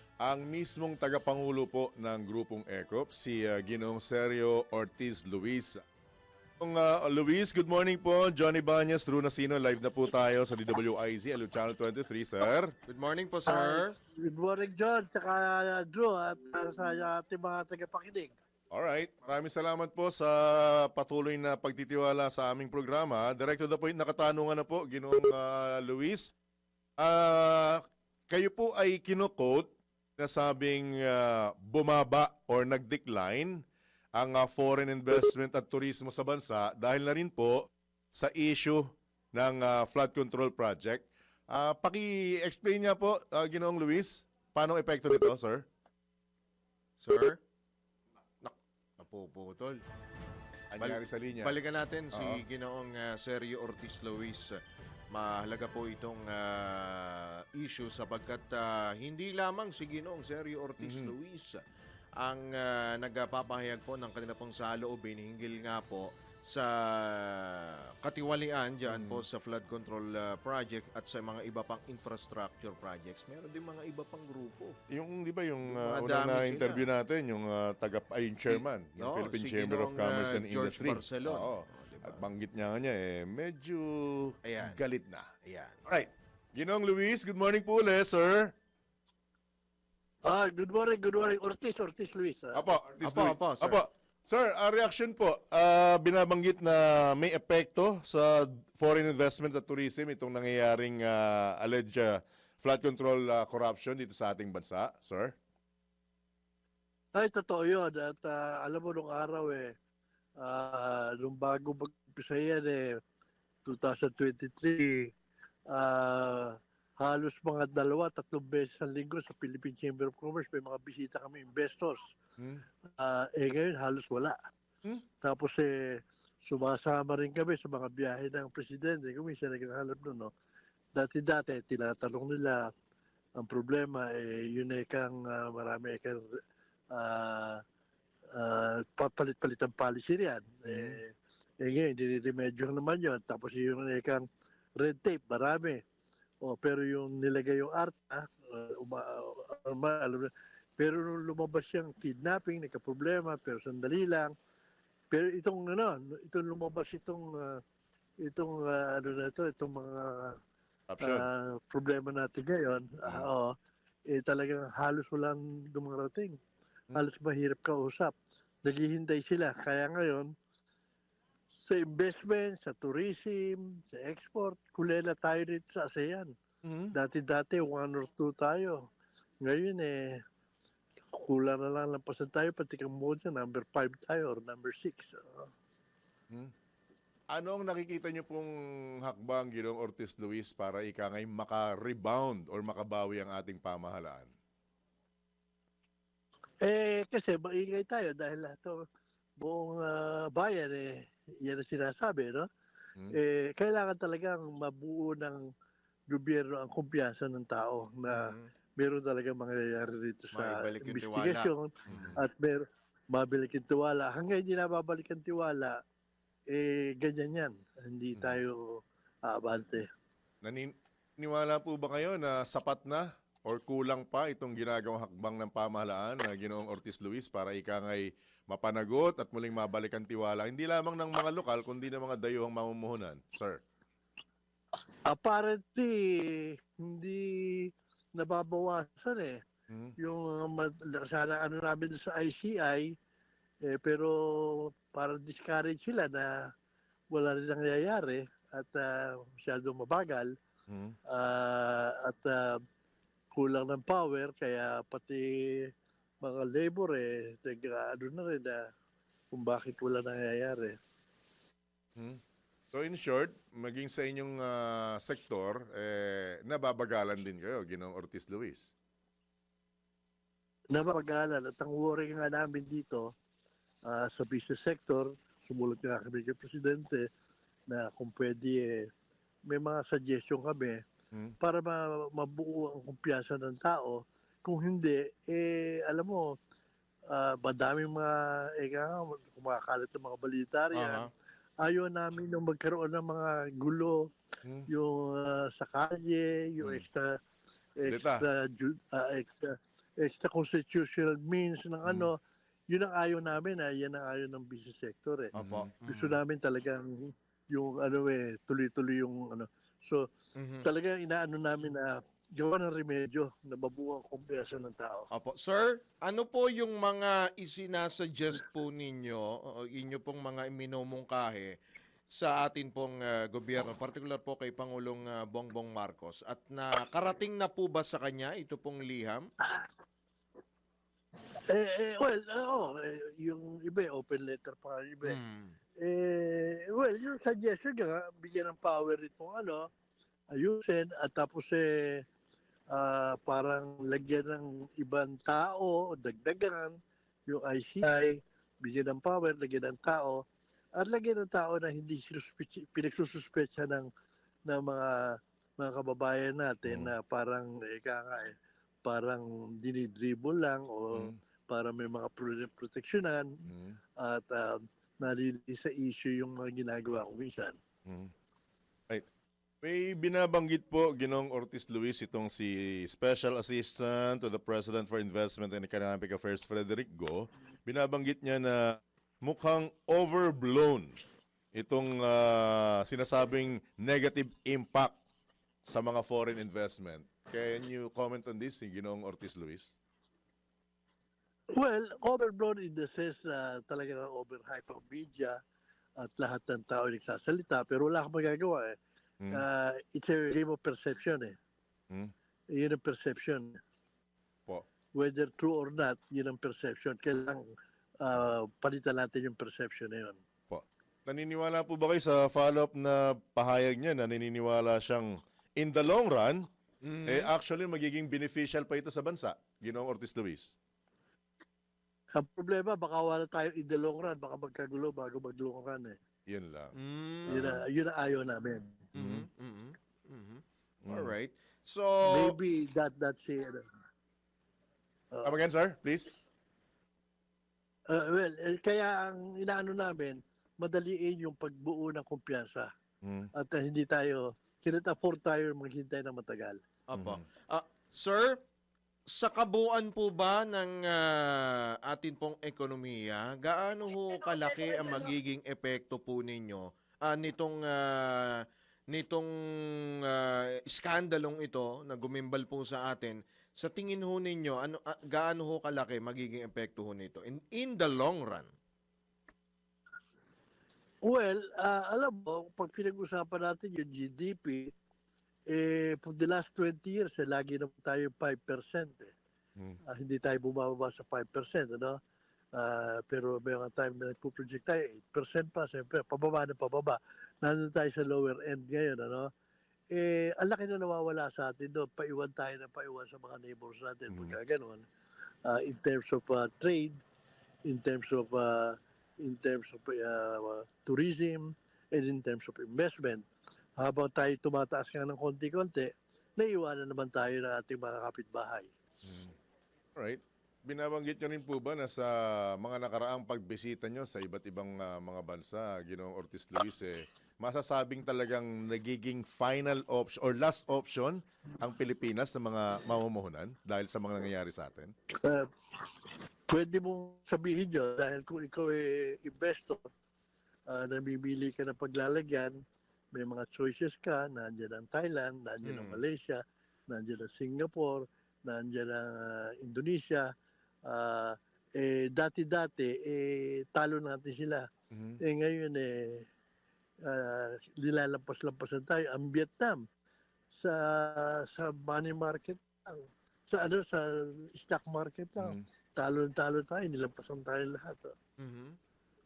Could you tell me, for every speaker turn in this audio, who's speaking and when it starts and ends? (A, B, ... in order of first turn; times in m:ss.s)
0:00.2-0:05.8 A
0:06.6-0:12.7 A
0:12.9-0:14.0 B
0:13.5-0:18.4 C
0:18.7-0:26.3 A
0:27.0-0:33.6 A
0:34.2-0:45.6 A
0:47.0-0:47.4 B
0:48.4-0:49.8 B
0:50.7-0:51.5 A
0:50.8-0:54.6 B
0:52.1-0:52.4 A
0:55.1-1:01.6 B
1:00.8-1:01.1 A
1:02.2-1:14.8 B
1:08.9-1:09.2 A
1:14.9-1:25.3 A
1:15.6-1:16.9 B
1:18.5-1:22.3 B
1:24.4-1:24.8 B
1:25.4-1:25.8 B
1:25.9-1:28.5 A
1:30.3-1:32.6 C
1:32.5-1:45.4 A
1:33.0-1:33.8 B
1:47.2-1:49.7 C
1:50.4-1:52.8 C
1:53.6-1:55.1 C
1:55.7-2:02.0 C
2:02.4-2:02.6 A
2:03.0-2:04.4 C
2:05.2-2:05.7 C
2:06.5-2:10.3 C
2:11.0-2:12.6 C
2:13.4-2:16.4 C
2:16.9-2:17.6 C
2:18.4-2:21.1 C
2:20.7-2:21.0 A
2:21.6-2:24.2 C
2:24.8-2:25.8 C
2:26.4-2:34.3 C
2:35.1-2:37.6 C
2:38.2-2:40.4 C
2:40.9-2:41.3 A
2:41.0-2:43.5 C
2:44.1-2:46.4 C
2:47.0-2:48.1 C
2:48.6-2:50.3 C
2:51.6-2:56.3 C
2:56.6-2:56.9 A
2:56.9-2:58.8 C
2:59.4-3:00.2 C
3:01.1-3:05.5 C
3:07.3-3:14.3 A
3:16.6-3:18.8 C
3:19.4-3:22.4 C
3:23.1-3:25.4 C
3:26.1-3:32.6 C
3:28.1-3:28.5 B
3:30.3-3:32.2 B
3:31.9-3:32.2 A
3:33.1-3:35.8 C
3:36.5-3:39.9 C
3:40.4-3:53.6 A
3:55.1-3:59.4 C
3:59.7-4:00.0 A
4:00.0-4:02.9 C
4:03.7-4:06.5 C
4:07.1-4:10.3 C
4:10.7-4:11.0 A
4:11.1-4:12.6 C
4:13.4-4:15.7 C
4:16.2-4:18.6 C
4:19.3-4:20.8 C
4:22.7-4:28.7 A
4:30.7-4:33.1 C
4:33.9-4:37.1 C
4:37.7-4:38.9 C
4:39.5-4:40.8 C
4:41.4-4:46.3 C
4:47.1-4:51.1 C
4:50.7-4:51.1 B
4:51.6-4:54.0 C
4:54.7-4:57.1 C
4:57.8-5:02.2 C
4:57.9-4:58.2 A
5:02.7-5:05.3 C
5:05.4-5:05.7 A
5:05.4-5:06.2 B
5:05.9-5:10.0 C
5:10.4-5:10.7 B
5:10.6-5:15.1 C
5:15.1-5:21.5 B
5:22.1-5:29.3 B
5:31.5-5:35.2 C
5:35.0-5:35.6 B
5:35.8-5:39.7 C
5:40.3-5:42.0 C
5:42.7-5:46.8 C
5:47.3-5:50.2 C
5:50.8-5:53.9 C
5:54.5-6:03.3 C
5:56.7-5:56.9 A
6:03.5-6:03.8 A
6:04.0-6:07.6 C
6:07.9-6:08.1 A
6:09.6-6:21.0 A
6:21.6-6:25.0 A
6:25.7-6:29.8 A
6:31.6-6:35.4 C
6:36.0-6:38.8 C
6:39.3-6:41.4 C
6:42.5-6:43.6 C
6:45.0-6:47.4 C
6:48.0-6:50.2 C
6:50.5-6:56.4 A
6:56.8-6:57.3 B
6:57.1-7:00.5 A
7:02.2-7:06.0 C
7:06.3-7:06.7 A
7:06.8-7:07.4 B
7:07.3-7:07.6 A
7:07.3-7:08.9 C
7:08.9-7:12.4 B
7:09.0-7:09.2 A
7:10.9-7:11.1 A
7:12.1-7:13.6 C
7:15.2-7:16.1 A
7:17.9-7:22.7 C
7:23.0-7:23.3 A
7:23.4-7:26.6 C
7:26.9-7:28.4 B
7:27.0-7:27.2 A
7:29.1-7:39.3 B
7:40.1-7:48.5 B
7:51.1-7:54.7 C
7:55.5-7:59.1 C
7:59.9-8:02.0 C
8:02.6-8:09.3 C
8:09.9-8:14.8 C
8:15.5-8:17.0 C
8:17.7-8:23.3 C
8:23.8-8:28.7 C
8:29.0-8:29.3 A
8:30.0-8:44.9 A
8:45.2-8:49.8 C
8:50.7-8:52.6 C
8:53.1-9:00.3 C
8:55.6-8:56.0 B
9:00.9-9:04.6 C
9:04.9-9:05.2 A
9:05.2-9:06.2 C
9:07.0-9:09.8 C
9:10.5-9:18.1 C
9:18.4-9:18.8 B